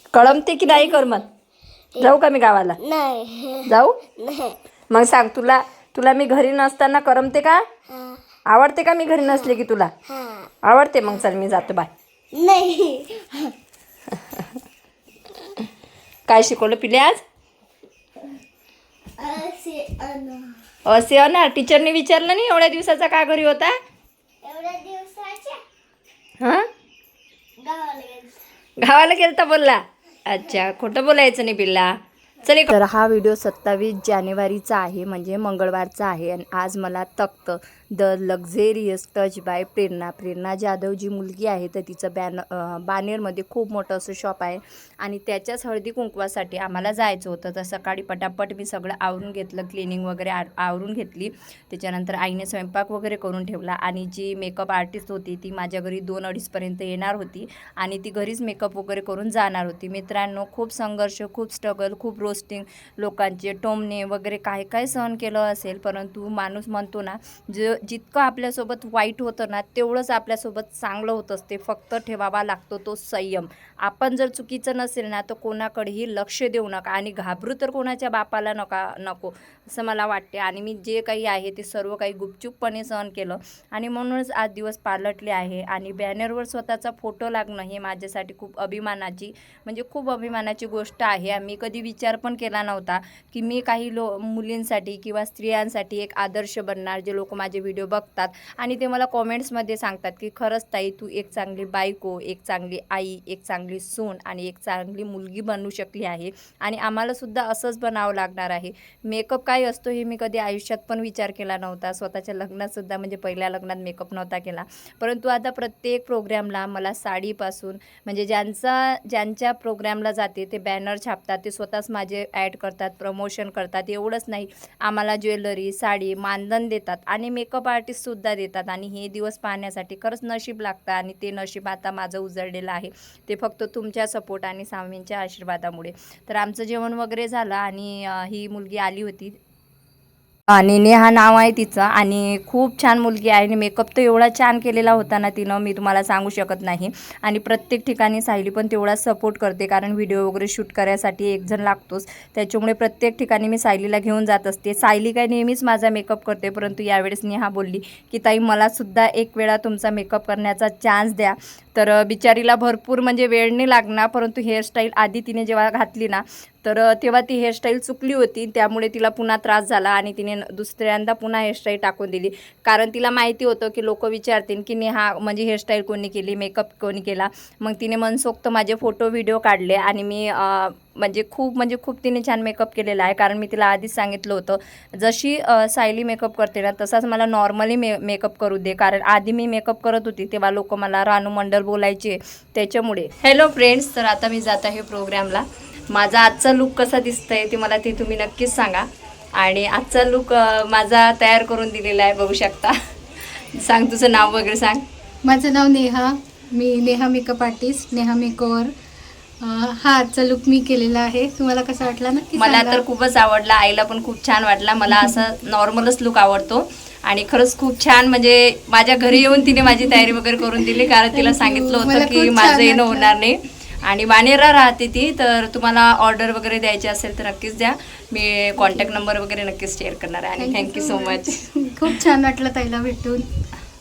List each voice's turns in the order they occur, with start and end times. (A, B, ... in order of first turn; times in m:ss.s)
0:00.1-0:01.3 A
0:02.0-0:02.8 A
0:02.8-0:03.6 B
0:03.7-0:04.0 A
0:04.2-0:04.6 B
0:04.9-0:07.6 A
0:08.5-0:09.9 A
0:10.1-0:10.5 B
0:10.6-0:11.9 A
0:12.3-0:13.5 B
0:16.3-0:17.2 A
0:19.2-0:20.6 B
0:20.8-0:23.8 A
0:24.4-0:25.6 B
0:26.4-0:26.7 A
0:27.6-0:28.4 B
0:28.8-2:19.4 A
2:20.5-3:22.8 A
3:23.4-3:24.8 A
3:25.2-3:28.7 C
3:29.4-3:32.8 C
3:32.3-3:52.0 A
3:34.9-3:35.2 C
3:40.6-3:43.1 C
3:48.6-3:49.0 C
3:50.4-3:53.3 C